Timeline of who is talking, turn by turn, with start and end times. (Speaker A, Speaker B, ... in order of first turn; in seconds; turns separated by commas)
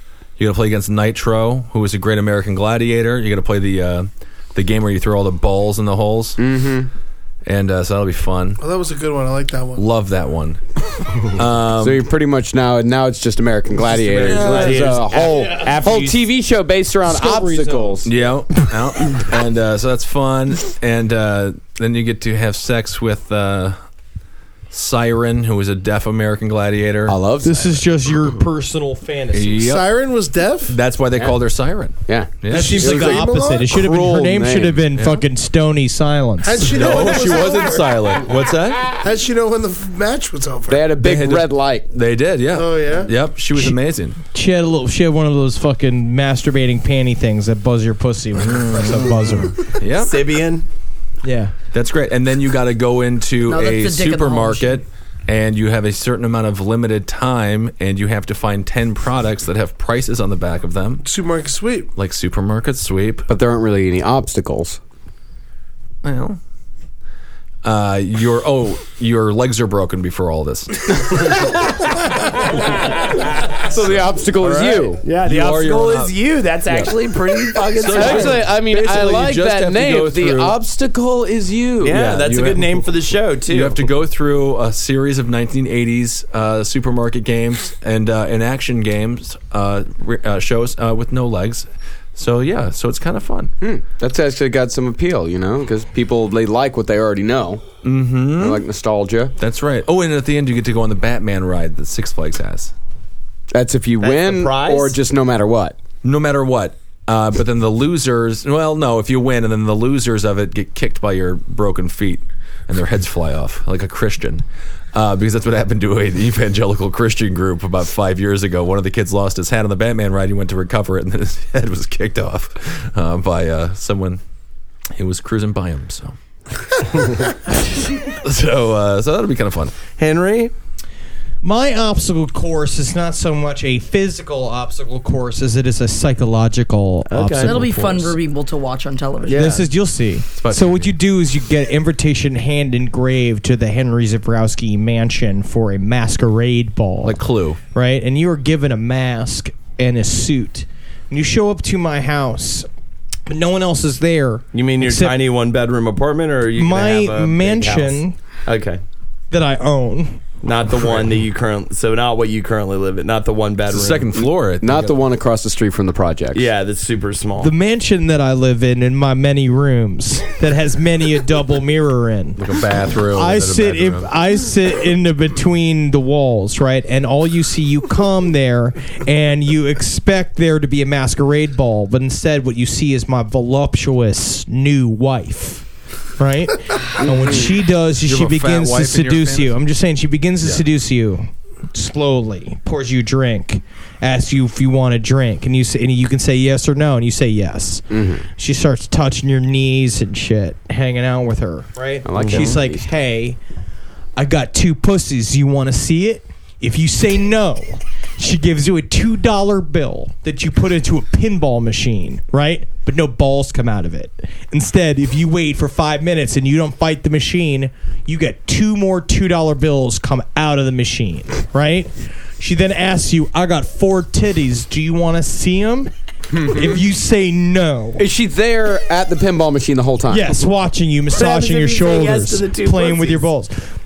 Speaker A: 0.4-6.4, Speaker B: 6.4-6.9, Speaker A: 7.4-8.6, Speaker C: 8.6-9.8, Speaker A: 9.8-10.6, Speaker A: 11.2-12.0, Speaker B: 11.8-18.1, Speaker D: 13.9-16.2, Speaker E: 15.3-15.8, Speaker E: 17.1-18.1, Speaker A: 18.0-23.8, Speaker A: 24.7-27.1, Speaker B: 27.1-27.8, Speaker E: 27.4-29.6, Speaker A: 29.3-29.9, Speaker C: 29.6-30.8, Speaker A: 30.7-33.2, Speaker B: 32.1-34.8, Speaker E: 32.5-36.7, Speaker C: 32.6-33.6, Speaker C: 36.4-37.9, Speaker A: 36.6-39.0, Speaker C: 39.0-40.9, Speaker B: 40.7-41.9, Speaker A: 41.0-44.2, Speaker C: 42.5-43.1, Speaker E: 44.3-49.5, Speaker A: 48.5-50.2, Speaker D: 50.0-50.6, Speaker E: 51.2-51.5, Speaker A: 51.7-61.0, Speaker F: 53.5-54.8, Speaker C: 61.0-61.9, Speaker A: 62.0-63.2, Speaker B: 63.3-64.8, Speaker A: 66.0-66.4, Speaker A: 67.6-71.2, Speaker B: 73.6-75.0, Speaker D: 74.4-78.4, Speaker A: 75.2-76.1, Speaker A: 77.7-80.6, Speaker B: 77.9-82.0, Speaker D: 81.8-83.8, Speaker A: 81.8-82.9, Speaker A: 83.5-93.5, Speaker B: 93.6-97.6, Speaker A: 97.8-98.6, Speaker B: 98.3-99.3, Speaker A: 99.4-102.7, Speaker B: 103.5-105.8, Speaker D: 104.0-104.9, Speaker A: 106.0-124.2, Speaker A: 125.0-126.1, Speaker A: 128.1-129.7, Speaker D: 130.0-130.5, Speaker E: 131.4-138.1, Speaker D: 137.1-137.7, Speaker F: 137.4-139.5, Speaker D: 139.2-139.7, Speaker E: 139.3-147.2, Speaker A: 140.4-140.9, Speaker A: 147.0-147.6, Speaker E: 147.7-152.7, Speaker E: 153.3-155.2, Speaker D: 154.5-158.8, Speaker E: 156.6-158.2, Speaker E: 159.3-160.2, Speaker D: 160.4-164.1, Speaker A: 163.7-165.0, Speaker B: 164.6-166.5, Speaker D: 166.3-167.5, Speaker E: 167.4-172.4, Speaker A: 172.4-174.1, Speaker E: 173.1-185.6, Speaker E: 186.2-197.8, Speaker B: 187.0-187.5, Speaker A: 188.0-189.6, Speaker B: 197.9-198.2, Speaker E: 198.4-203.4, Speaker B: 202.0-202.9, Speaker D: 202.2-202.5, Speaker E: 204.2-225.9, Speaker B: 226.3-226.8, Speaker E: 226.4-228.0, Speaker B: 228.0-230.3, Speaker E: 230.1-233.5, Speaker D: 231.1-233.2